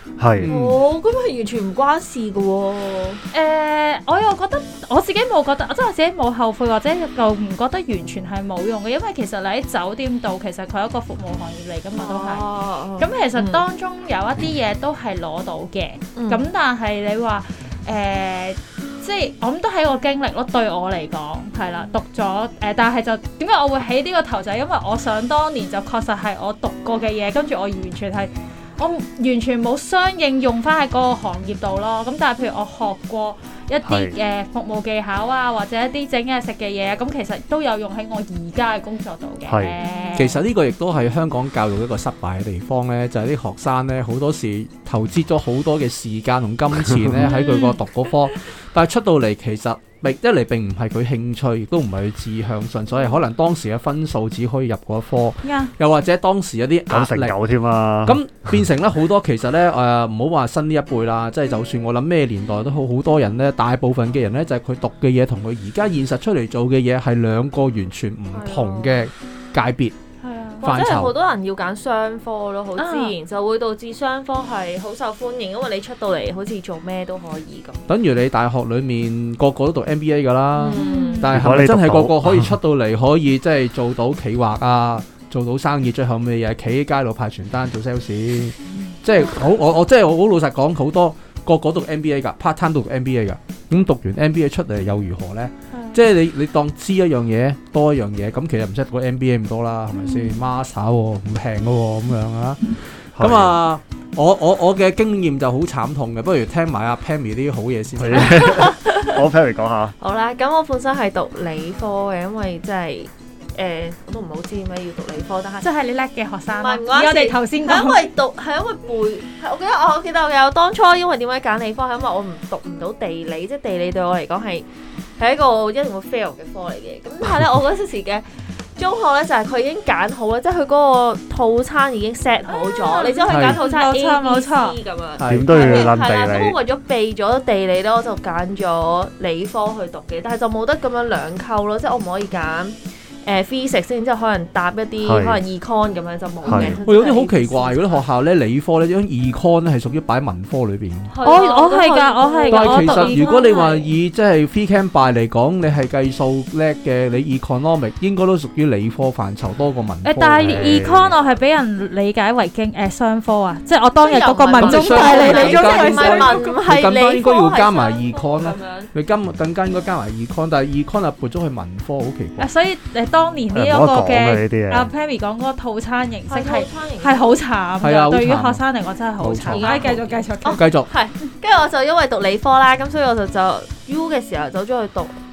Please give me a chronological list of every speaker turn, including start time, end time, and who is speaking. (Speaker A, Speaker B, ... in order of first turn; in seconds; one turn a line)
Speaker A: 0.2-0.5
Speaker B: 0.4-0.8
Speaker C: 0.4-3.2
Speaker D: 3.3-12.5
Speaker C: 12.0-13.6
Speaker D: 13.0-40.4
Speaker C: 16.2-16.5
Speaker A: 33.9-34.1
Speaker A: 39.5-39.8
Speaker C: 39.9-40.2
Speaker B: 40.1-57.3
Speaker D: 47.2-47.8
Speaker D: 55.4-55.7
Speaker A: 56.9-58.2
Speaker B: 58.1-69.9
Speaker C: 68.3-69.1
Speaker D: 70.2-70.7
Speaker C: 70.6-77.8
Speaker B: 70.6-71.1
Speaker D: 72.8-73.1
Speaker B: 77.9-108.6
Speaker C: 80.5-81.3
Speaker D: 80.7-81.3
Speaker A: 81.3-82.6
Speaker D: 95.7-96.0
Speaker D: 99.9-100.5
Speaker A: 103.2-103.6
Speaker A: 108.0-109.9
Speaker C: 108.2-109.2
Speaker C: 110.0-115.7
Speaker D: 115.6-118.0
Speaker C: 116.5-124.7
Speaker C: 125.2-128.2
Speaker C: 128.8-148.1
Speaker D: 132.5-134.8
Speaker B: 133.3-133.6
Speaker B: 135.2-135.8
Speaker A: 135.2-136.6
Speaker A: 145.0-145.4
Speaker A: 146.5-146.8
Speaker B: 146.5-151.1
Speaker C: 151.1-153.9
Speaker D: 151.2-153.4
Speaker B: 152.5-160.9
Speaker D: 160.0-166.5
Speaker A: 160.4-161.1
Speaker C: 161.1-161.4
Speaker C: 164.0-168.9
Speaker B: 164.6-172.5
Speaker D: 172.4-180.6
Speaker A: 173.5-174.9
Speaker C: 176.3-177.4
Speaker B: 177.8-178.6
Speaker B: 179.2-179.9
Speaker C: 179.5-185.1
Speaker B: 180.6-180.9